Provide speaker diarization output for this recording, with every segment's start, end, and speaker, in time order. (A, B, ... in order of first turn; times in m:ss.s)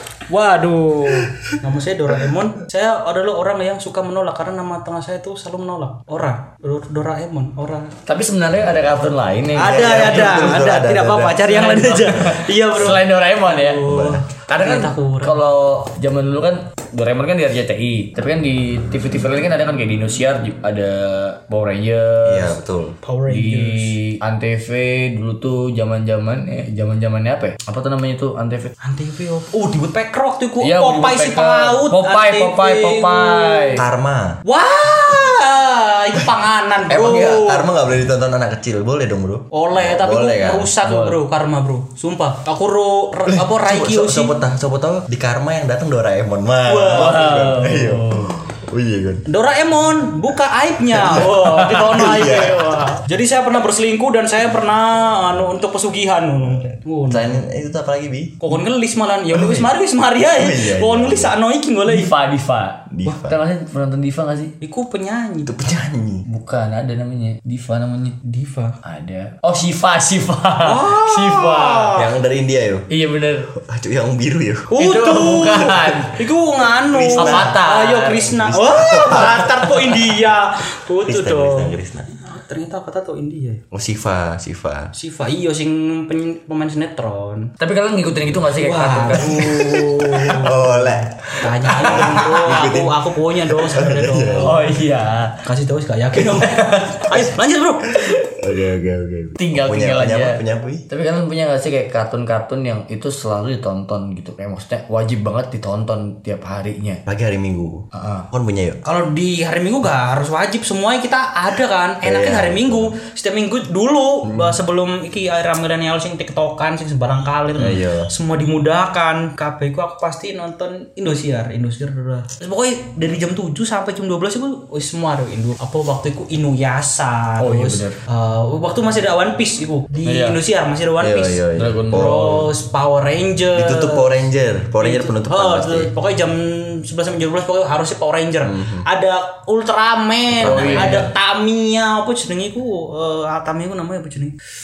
0:00.3-0:07.9 A
0:01.2-0:01.6 B
0:08.0-0:10.6 C
0:09.6-0:15.4 A
0:09.6-0:11.4 B
0:11.5-0:13.8 C
0:13.9-0:14.2 B
0:14.5-0:22.6 C
0:22.2-0:23.0 B
0:23.0-0:24.0 A
0:23.3-0:28.7 C
0:28.8-0:33.8 A
0:30.6-0:33.8 C
0:33.8-0:34.4 B
0:34.5-0:37.7 A
0:36.9-0:40.7 B
0:39.5-0:44.4 A
0:40.8-0:41.2 C
0:43.3-0:49.2 B
0:46.7-0:47.5 A
0:47.0-0:48.3 C
0:49.3-0:57.4 A
0:50.9-0:52.8 B
0:57.1-0:58.6 B
0:58.4-1:02.1 A
0:59.3-0:59.7 B
1:00.4-1:01.4 B
1:01.9-1:04.5 C
1:02.9-1:03.4 B
1:04.6-1:05.5 A
1:05.5-1:06.3 B
1:06.3-1:08.2 C
1:08.2-1:08.8 A
1:08.8-1:12.0 C
1:10.6-1:12.1 A
1:12.0-1:12.9 B
1:12.9-1:13.5 C
1:13.6-1:14.7 B
1:14.7-1:23.6 A
1:14.8-1:16.2 C
1:16.9-1:17.6 B
1:17.2-1:18.3 C
1:18.3-1:20.0 B
1:21.1-1:22.1 B
1:23.7-1:24.9 B
1:24.9-1:27.5 A
1:27.6-1:29.4 C
1:28.6-1:34.6 A
1:29.1-1:31.1 B
1:31.7-1:34.6 B
1:31.8-1:32.5 C
1:34.4-1:35.4 C
1:35.4-1:38.0 A
1:36.2-1:37.2 C
1:38.0-1:40.9 B
1:39.4-1:47.0 C
1:47.1-1:48.8 B
1:47.9-1:48.3 C
1:48.8-2:14.1 A
1:52.0-1:53.0 B
1:54.2-1:54.6 B
1:57.6-1:58.1 B
2:07.4-2:08.0 C
2:10.0-2:10.4 C
2:11.0-2:12.5 B
2:11.6-2:12.2 C
2:13.6-2:15.9 B
2:14.8-2:24.4 A
2:18.4-2:18.9 B
2:20.3-2:21.1 B
2:20.4-2:21.0 C